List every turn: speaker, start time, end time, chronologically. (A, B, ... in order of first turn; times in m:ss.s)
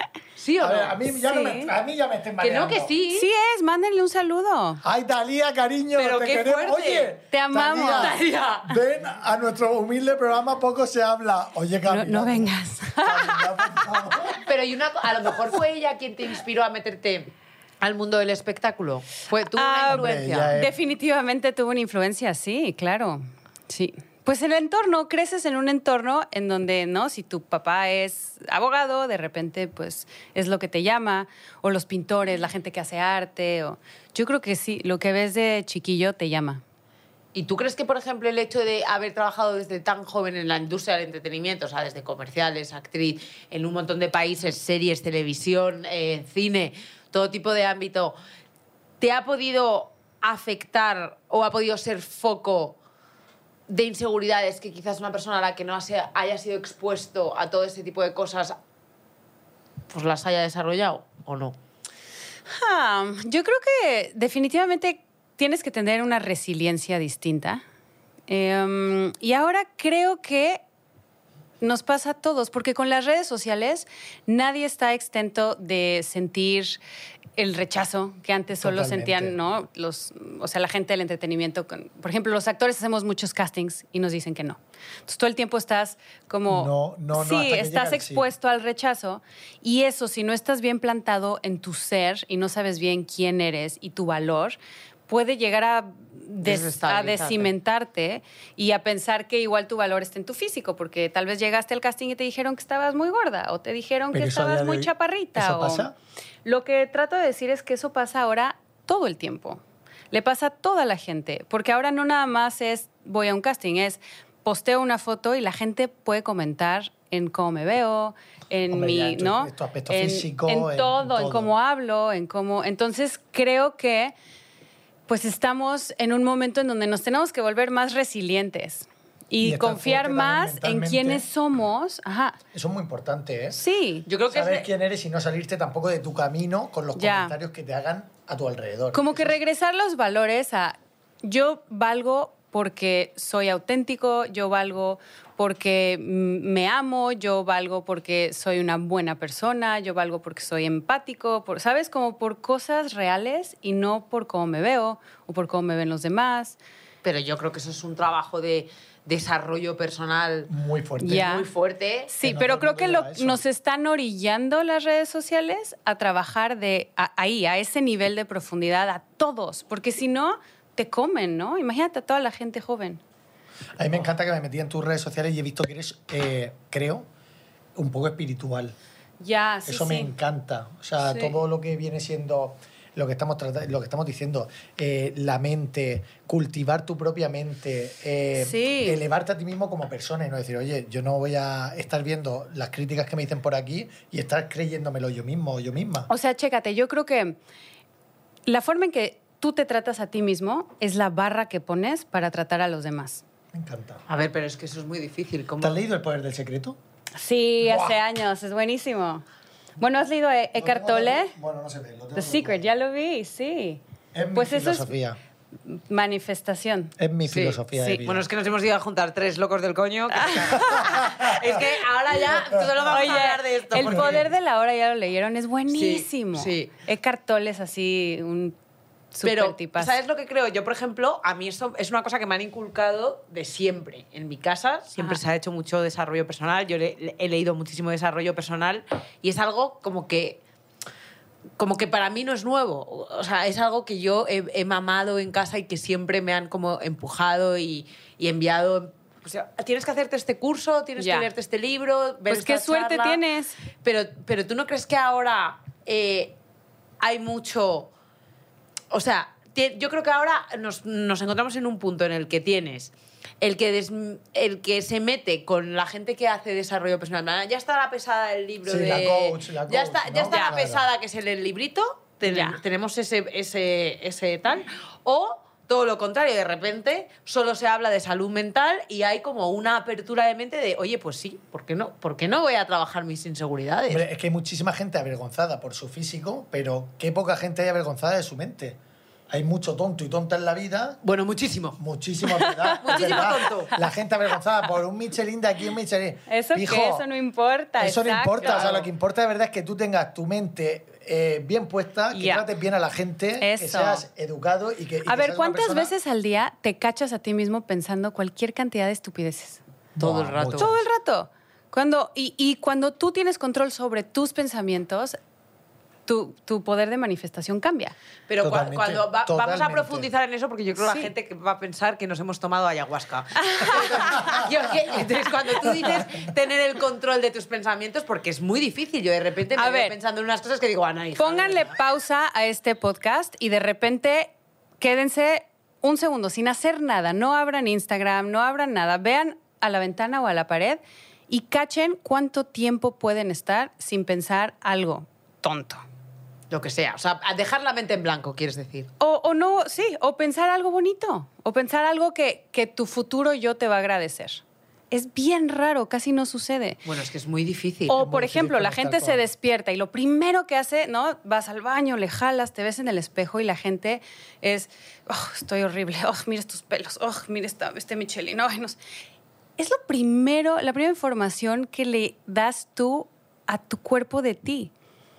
0:00.4-0:01.0 A
0:00.6-0:02.9 B
0:01.2-0:01.7 C
0:02.4-0:03.3 A
0:03.1-0:04.8 C
0:04.8-0:14.4 B
0:06.0-0:07.1 A
0:07.3-0:08.2 C
0:07.9-0:08.7 A
0:11.9-0:13.8 C
0:14.4-0:20.6 A
0:19.5-0:36.6 C
0:19.9-0:20.8 B
0:37.4-0:48.2 A
0:49.0-0:52.8 A
0:53.7-0:58.6 A
0:59.9-1:01.6 A
1:02.5-1:07.6 C
1:08.3-1:10.6 C
1:11.6-1:16.8 C
1:17.4-1:45.9 C
1:18.6-1:19.4 B
1:26.5-1:28.3 B
1:36.4-1:37.5 A
1:44.1-1:45.9 B
1:46.4-2:04.2 C
1:58.7-2:01.5 B
2:05.1-2:12.4 C
2:09.4-2:11.3 B
2:12.5-2:13.6 B
2:13.5-2:14.1 C
2:14.1-2:14.7 A
2:14.3-2:19.4 B
2:17.0-2:17.3 C
2:18.9-2:36.6 C
2:37.0-2:40.5 A
2:40.5-2:41.3 B
2:41.0-2:41.5 C
2:41.1-2:42.1 A
2:42.1-2:53.0 C
2:42.2-2:43.4 B
2:53.8-2:57.1 B
2:57.8-2:58.8 B
2:59.2-3:00.1 C
2:59.7-3:16.1 B
3:08.4-3:09.0 C
3:16.1-3:17.4 C
3:18.5-3:23.2 C
3:23.5-3:24.0 B
3:24.1-3:25.8 A
3:25.6-3:26.8 B
3:27.2-3:29.2 C
3:27.6-3:28.0 B
3:29.8-3:31.3 C
3:30.6-3:32.6 B
3:32.2-3:33.8 C
3:34.1-3:35.2 B
3:34.3-3:34.9 C
3:35.7-3:37.0 C
3:37.0-3:38.3 B
3:37.3-3:44.3 A
3:37.8-3:38.0 C
3:40.1-3:41.0 C
3:40.6-3:41.6 B
3:42.4-3:43.2 B
3:42.9-3:48.6 C
3:43.8-3:44.2 B
3:45.7-3:46.7 A
3:49.1-3:50.0 C
3:49.2-4:00.4 A
4:01.6-4:13.2 A
4:11.0-4:11.3 C
4:12.3-4:13.6 C
4:13.8-4:16.4 A
4:17.0-4:17.9 A
4:18.9-4:44.0 A
4:28.6-4:30.8 B
4:32.3-4:32.6 C
4:43.9-4:48.8 B
4:49.3-4:51.0 B
4:51.0-4:51.8 A
4:51.8-4:57.0 B
4:52.3-4:53.8 C
4:52.8-4:53.7 A
4:56.3-4:58.8 C
4:57.8-5:05.9 B
4:58.4-4:58.8 A
5:02.1-5:02.5 C
5:03.4-5:04.0 C
5:05.1-5:09.6 C
5:10.0-5:10.8 B
5:10.0-5:10.8 A
5:10.6-5:15.2 C
5:16.1-5:18.0 C
5:18.3-5:31.7 A
5:18.4-5:20.1 B
5:20.8-5:21.1 C
5:23.4-5:24.4 C
5:29.6-5:30.0 C
5:31.2-5:45.8 C
5:46.5-5:48.9 A
5:49.0-5:56.8 C
5:56.8-5:58.0 A
5:57.9-6:08.8 C
5:57.9-5:59.2 B
6:09.6-6:14.7 C